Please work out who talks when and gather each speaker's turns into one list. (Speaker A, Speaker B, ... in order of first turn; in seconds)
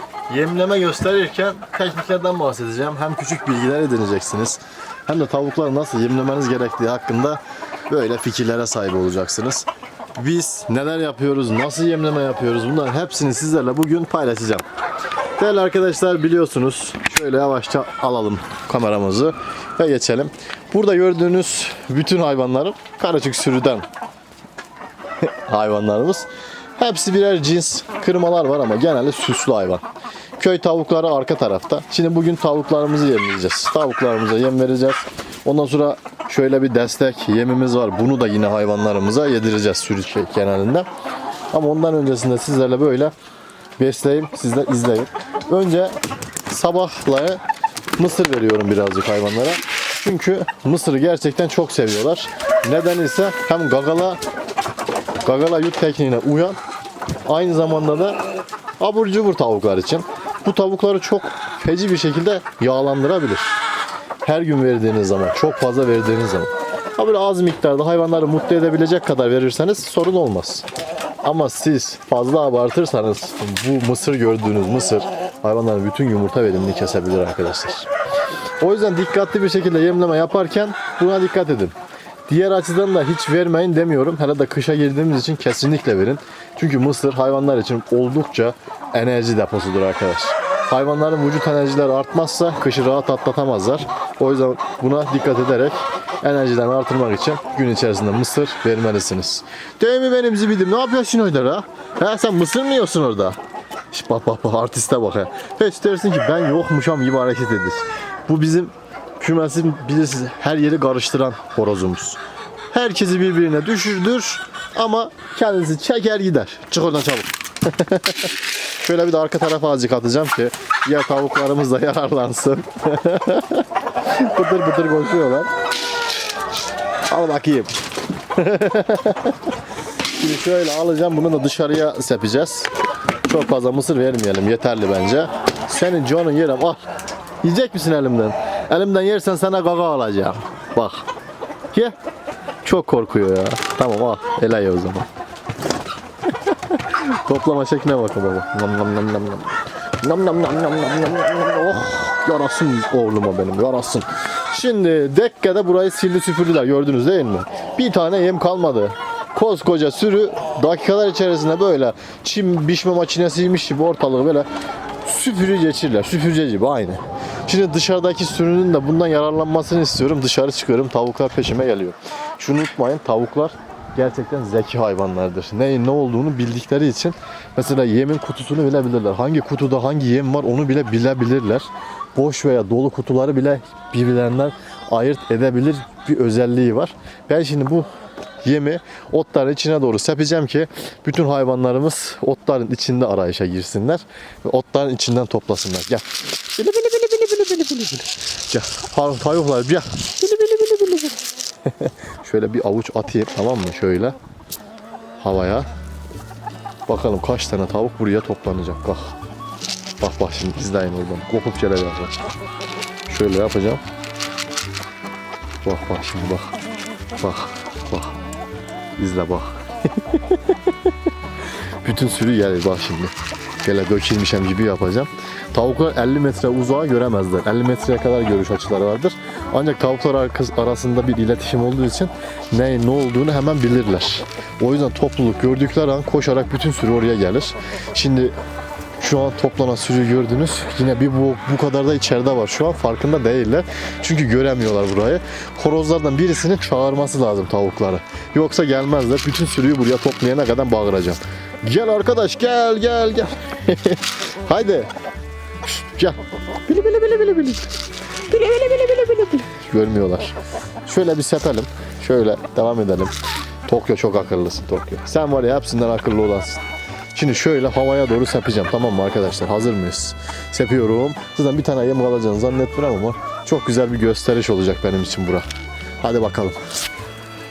Speaker A: 0.3-14.6, 15.4-23.9, 25.2-29.9, 30.4-40.9, 41.5-43.1, 43.8-46.0, 46.5-47.4, 48.0-54.2, 55.2-56.6, 57.2-58.2, 58.8-63.5, 64.2-70.7, 71.2-77.9, 78.6-81.7, 82.3-103.4, 103.9-112.2, 112.7-125.5, 127.1-127.7, 128.3-129.5, 130.1-132.7, 133.2-136.9, 137.4-141.1, 142.6-145.1, 146.4-164.5, 165.0-187.9, 188.4-204.2, 205.2-205.7, 206.9-209.2, 210.0-212.2, 213.1-213.8, 215.6-216.5, 217.2-218.2, 218.9-220.9, 221.8-238.3, 239.0-254.9, 255.6-257.7, 258.3-263.1, 263.6-275.4, 276.0-276.6